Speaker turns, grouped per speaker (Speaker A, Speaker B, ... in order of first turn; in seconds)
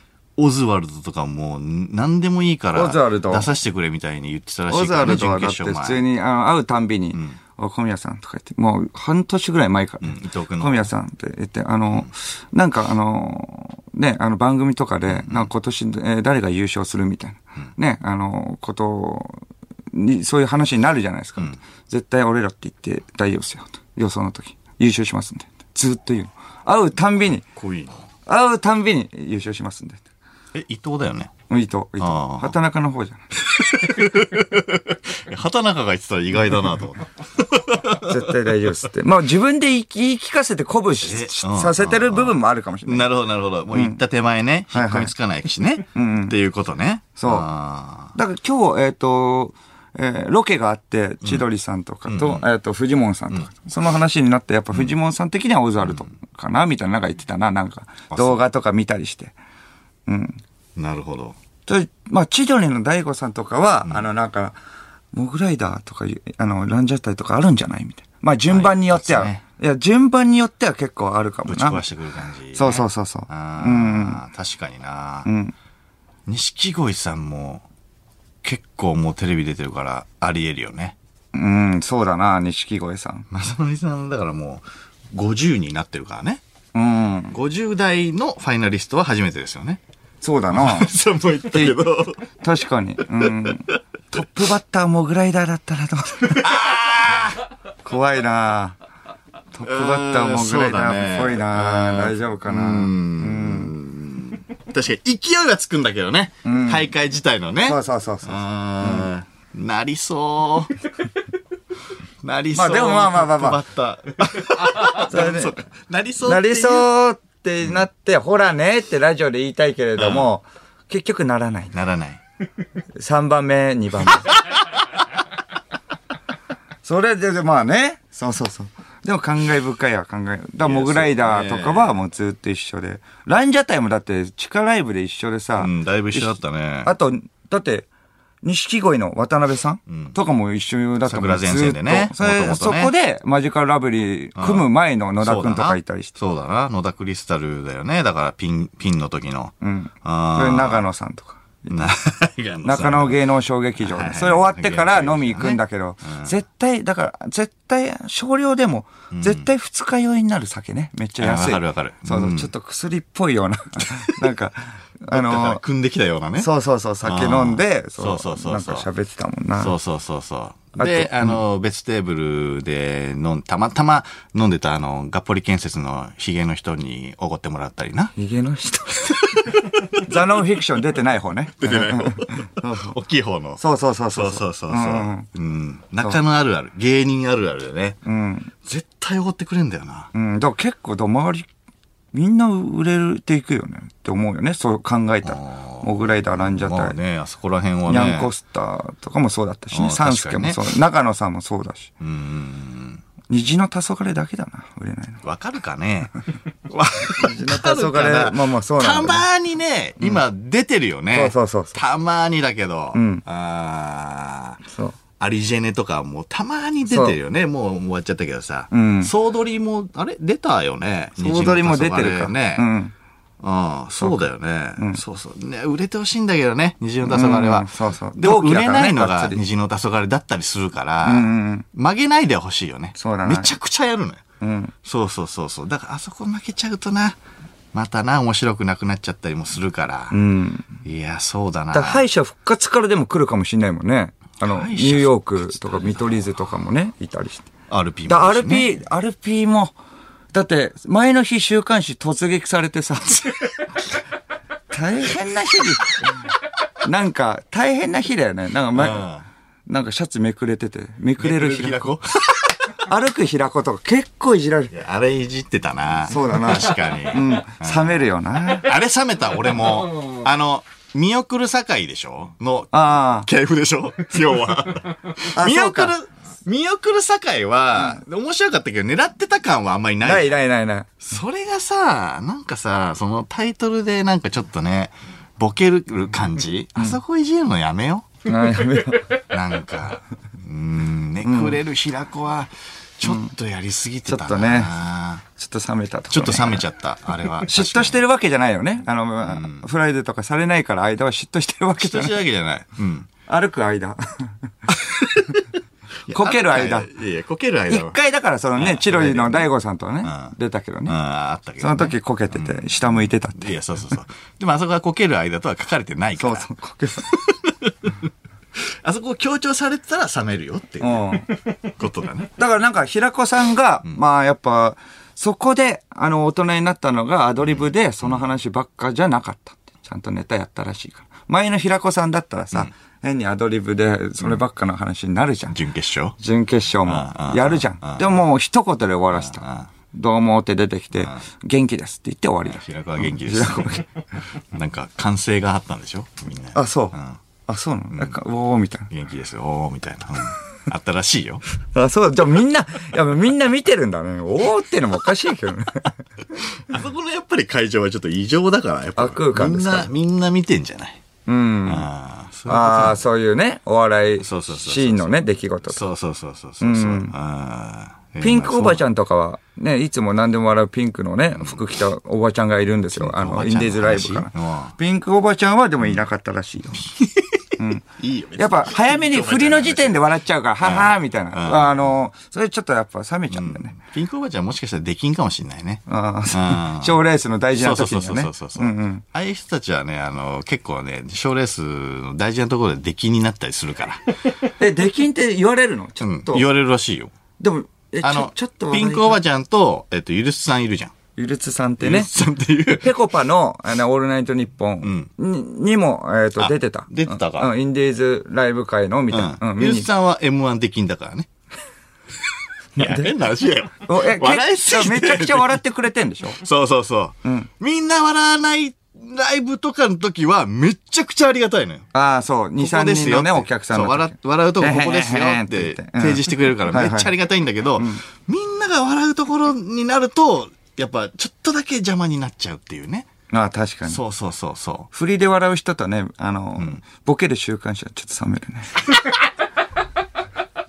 Speaker A: 0.4-6.0, 10.0-10.9, 15.1-15.5, 27.6-28.1, 30.5-31.3, 32.0-32.5, 33.5-38.3, 41.0-48.2, 52.1-52.5, 58.1-58.4, 60.8-61.4, 68.5-69.4, 71.5-75.3, 76.3-77.7, 78.4-81.0, 83.3-86.4, 87.3-89.8, 90.5-92.2, 96.3-97.5, 99.6-110.8, 112.2-116.9, 120.0-120.3, 121.7-122.2, 130.6-132.0, 135.6-136.9, 139.9-140.2, 141.1-142.9, 144.4-144.7, 145.2-150.8, 151.7-153.2, 153.8-156.3, 159.1-159.5, 161.2-162.5, 163.9-164.2, 165.1-166.5, 167.0-168.9, 169.6-178.1, 179.0-180.0, 181.6-188.0, 188.6-190.1, 195.2-198.3, 199.7-200.8, 202.0-203.0, 205.2-214.6, 215.2-222.7, 223.4-234.2, 234.8-237.2, 237.7-240.2, 240.8-242.0, 244.4-246.3, 247.7-248.7, 258.7-259.3, 261.2-262.8, 264.7-268.0, 268.5-280.4, 281.0-288.1, 289.3-295.2, 296.1-298.0, 299.2-299.7, 301.8-303.1, 304.8-305.4, 306.1-308.0, 308.6-309.5, 310.0-310.4, 310.9-312.8, 313.3-316.5, 317.0-322.3, 327.5-328.2, 335.5-336.2, 336.9-338.2, 339.1-339.7, 341.0-341.2, 342.4-347.2, 348.9-351.4, 356.3-361.0, 361.6-363.0, 364.2-365.1, 365.7-368.8, 372.9-374.8, 376.8-380.0, 380.6-381.9, 383.3-387.0, 387.6-394.2, 396.0-397.1, 398.0-400.9, 401.8-402.9, 404.8-405.1, 406.4-407.5, 409.1-411.3, 412.8-415.6, 416.4-421.9, 422.6-433.1, 433.9-434.9
Speaker B: 2.7-3.5, 4.7-27.4, 28.3-30.0, 31.5-33.3, 38.0-43.1, 43.7-44.0, 44.7-45.1, 46.0-46.4, 47.2-47.5, 48.1-59.4, 60.1-60.4, 61.7-64.6, 65.1-71.8, 72.5-74.2, 75.3-75.5, 81.3-83.3, 86.7-87.4, 90.2-90.9, 91.5-91.8, 92.3-96.6, 97.8-98.8, 99.5-103.7, 106.4-106.9, 107.6-109.1, 112.5-113.6, 114.7-115.6, 116.2-121.8, 123.0-124.3, 126.8-137.9, 138.4-146.1, 149.6-151.9, 152.6-165.6, 166.4-169.7, 170.8-171.4, 178.2-182.9, 183.6-185.3, 188.1-188.5, 190.1-191.5, 192.1-197.0, 197.9-201.9, 203.3-205.2, 207.1-209.3, 211.1-211.8, 212.9-213.2, 214.7-215.0, 216.9-217.2, 218.7-219.1, 221.2-222.9, 224.0-225.0, 227.0-229.4, 231.0-231.7, 233.0-233.5, 234.4-234.7, 240.1-240.8, 241.7-247.5, 248.1-249.8, 250.3-253.5, 254.7-256.1, 256.8-259.0, 259.7-261.9, 262.8-264.7, 266.1-268.7, 272.7-273.3, 275.3-275.9, 280.0-280.9, 288.2-289.2, 291.2-291.6, 293.1-293.3, 294.1-294.7, 295.4-296.6, 297.4-302.2, 303.3-304.7, 306.1-306.9, 307.7-310.9, 311.6-313.6, 316.2-317.1, 320.8-321.3, 322.4-335.6, 336.2-343.9, 346.6-348.9, 351.7-355.9, 359.0-359.9, 361.3-361.9, 362.5-365.8, 366.6-367.1, 368.2-376.9, 377.6-377.8, 378.4-383.7, 385.9-389.0, 394.6-396.5, 397.4-399.2, 401.2-402.1, 402.7-409.9, 412.8-413.1, 413.9-416.4, 417.2-417.5, 421.9-427.1, 427.8-428.0, 433.3-434.0, 434.9-438.7